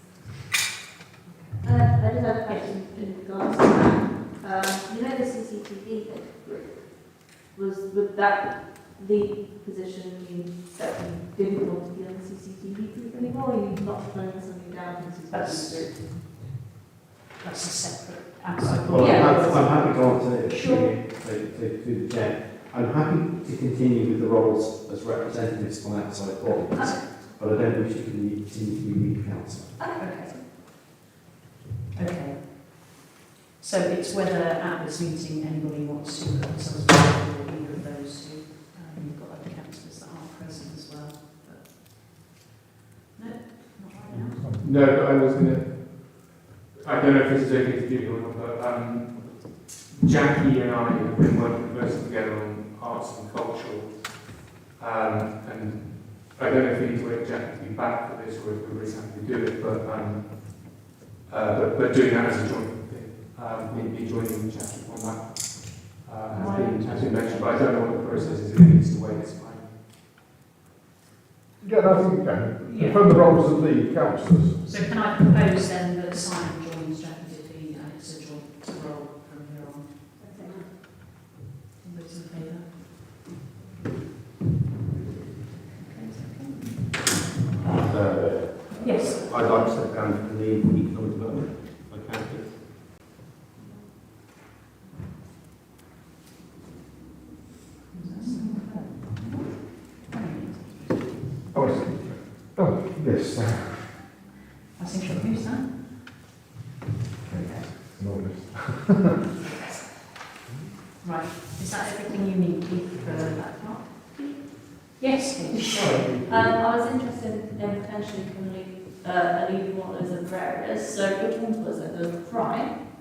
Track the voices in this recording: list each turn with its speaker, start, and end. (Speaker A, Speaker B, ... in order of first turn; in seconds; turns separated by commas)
Speaker A: 1.2-1.7, Speaker B: 1.6-16.5, Speaker A: 2.5-2.8, Speaker A: 15.3-15.9, Speaker A: 17.4-20.9, Speaker C: 18.9-29.8, Speaker B: 18.9-20.9, Speaker B: 26.8-27.0, Speaker B: 29.8-30.1, Speaker A: 30.0-30.5, Speaker A: 31.9-32.9, Speaker A: 33.6-42.2, Speaker A: 43.1-44.4, Speaker D: 44.1-44.8, Speaker E: 44.6-69.7, Speaker A: 66.3-67.5, Speaker B: 66.3-69.0, Speaker A: 68.1-68.4, Speaker D: 71.6-74.6, Speaker A: 72.6-73.4, Speaker A: 74.6-80.1, Speaker B: 80.2-80.7, Speaker A: 81.8-82.8, Speaker A: 85.8-86.9, Speaker C: 87.7-92.6, Speaker A: 88.8-89.3, Speaker B: 93.6-93.8, Speaker A: 97.9-102.1, Speaker D: 101.5-104.2, Speaker A: 104.8-105.8, Speaker D: 105.0-105.4, Speaker D: 107.2-109.2, Speaker A: 107.3-107.7, Speaker A: 111.0-114.1, Speaker B: 113.3-114.8, Speaker A: 115.0-116.1, Speaker D: 115.7-116.6, Speaker B: 116.2-122.8